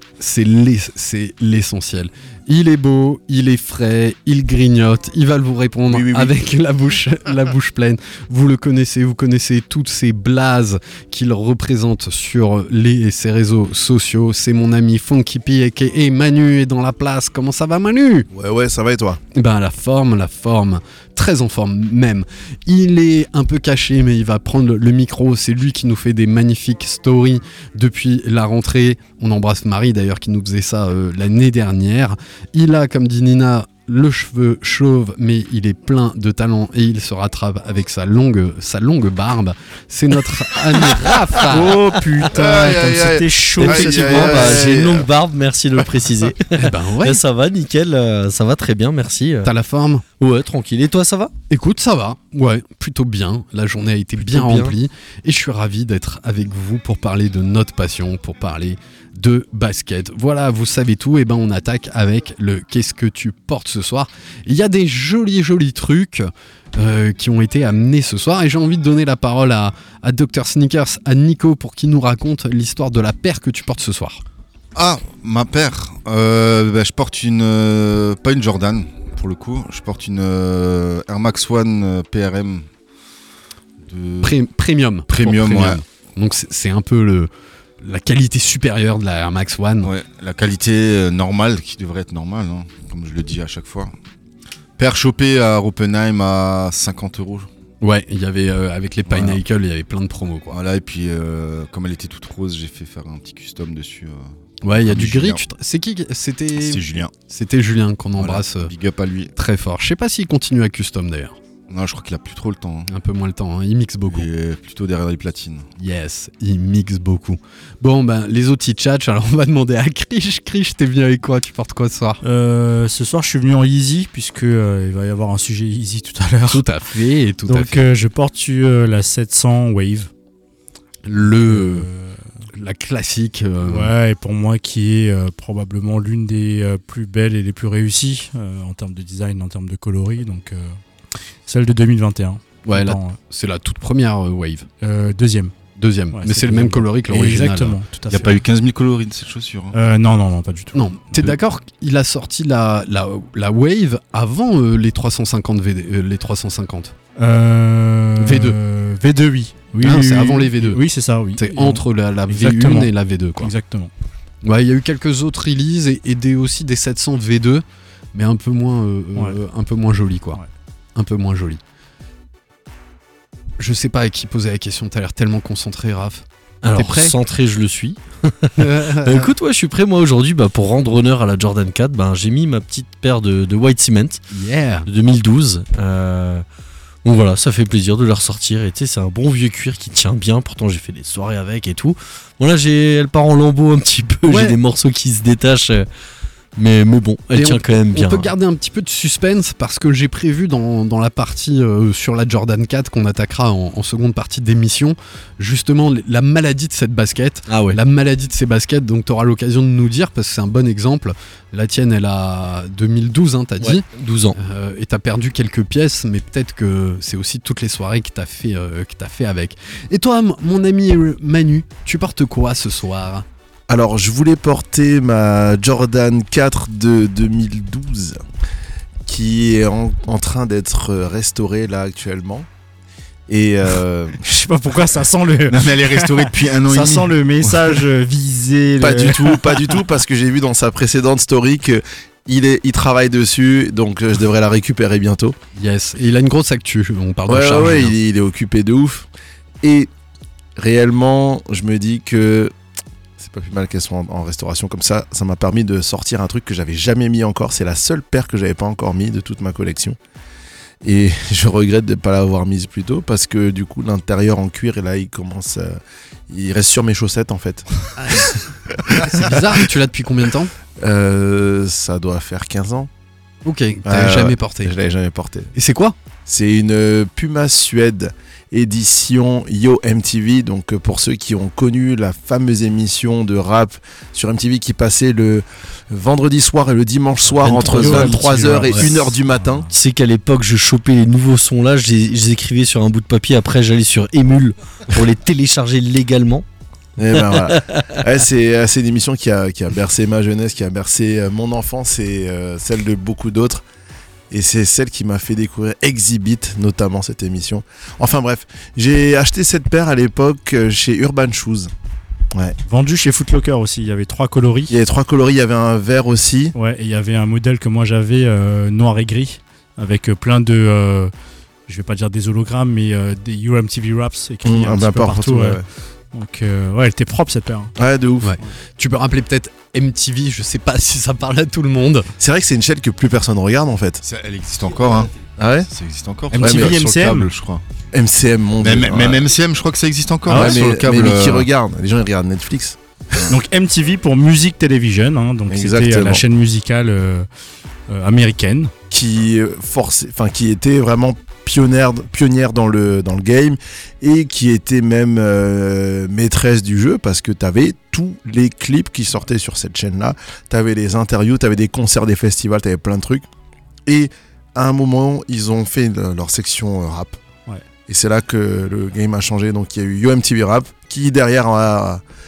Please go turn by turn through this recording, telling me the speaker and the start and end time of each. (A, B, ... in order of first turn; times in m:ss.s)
0:00.2-0:18.3 A
0:05.9-0:06.3 B
0:18.3-0:19.2 C
0:19.3-0:41.8 A
0:41.4-0:44.4 D
0:42.3-0:45.1 C
0:43.6-0:49.5 E
0:46.6-0:47.2 A
0:49.4-0:50.0 A
0:50.2-0:51.3 E
0:51.5-1:14.2 A
0:54.2-0:54.8 E
1:14.7-1:22.6 B
1:23.8-1:24.4 B
1:24.2-1:29.9 A
1:25.1-1:25.8 B
1:29.8-1:33.9 B
1:34.8-1:37.5 B
1:37.8-1:40.6 A
1:39.1-1:39.4 B
1:40.5-1:45.4 B
1:44.6-1:48.7 A
1:46.6-1:47.1 B
1:48.2-1:49.3 B
1:49.3-1:51.4 A
1:51.7-1:52.9 B
1:52.9-1:54.3 A
1:54.1-1:55.7 B
1:55.8-2:02.2 A
2:02.2-2:06.6 D
2:06.5-2:07.8 A
2:07.4-2:10.1 D
2:11.0-2:11.9 A
2:11.2-2:12.2 D
2:12.5-2:13.9 A
2:13.6-2:20.8 D
2:21.5-2:23.2 D
2:22.6-2:24.7 A
2:24.8-2:25.5 D
2:25.8-2:27.8 A
2:26.1-2:28.4 D
2:28.1-2:29.8 B
2:29.7-2:31.3 D
2:30.7-2:36.9 A
2:37.2-2:43.9 D
2:38.2-2:38.6 A
2:39.8-2:40.8 A
2:41.4-2:43.5 A
2:44.4-2:50.4 A
2:51.0-2:51.6 A
2:53.6-2:57.2 A
2:56.6-3:04.2 E
2:58.6-2:59.3 A
3:04.3-3:04.9 A
3:04.8-3:06.4 E
3:07.0-3:15.9 E
3:14.2-3:14.6 A
3:16.6-3:18.3 E
3:17.4-3:43.2 A
3:27.5-3:27.8 E
3:33.6-3:34.4 E
3:43.7-3:48.2 C
3:49.0-3:52.5 C
3:53.3-3:54.2 C
3:54.2-3:59.7 D
3:55.5-3:57.8 B
3:58.8-4:05.4 C
4:05.6-4:07.9 A
4:07.3-4:09.1 C
4:09.6-4:09.9 C
4:10.6-4:12.5 C
4:13.2-4:20.0 C
4:20.8-4:29.6 C
4:28.0-4:28.3 A
4:29.0-4:30.5 A
4:30.8-4:32.9 C
4:33.4-4:34.7 A
4:33.8-4:35.5 C
4:35.5-4:36.0 A
4:36.2-4:49.7 C
4:47.4-4:48.9 E
4:47.8-4:49.7 D
4:49.7-4:56.4 E
4:57.0-5:03.6 C
4:57.2-4:57.8 E
5:04.3-5:11.7 C
5:12.7-5:14.7 D
5:14.7-5:16.5 C
5:16.5-5:21.1 D
5:21.7-5:27.7 D
5:24.4-5:25.6 C
5:27.8-5:28.4 C
5:28.2-5:32.1 A
5:32.2-5:34.0 C
5:34.0-5:37.6 B
5:35.4-5:35.7 C
5:36.3-5:37.3 D
5:36.4-5:36.8 C
5:37.9-5:39.3 C
5:38.6-5:41.5 B
5:40.3-5:43.3 C
5:40.3-5:40.6 D
5:43.3-5:47.3 D
5:45.5-5:46.2 C
5:47.9-5:48.7 D
5:48.9-6:03.3 C
6:03.8-6:07.2 C
6:07.9-6:12.0 C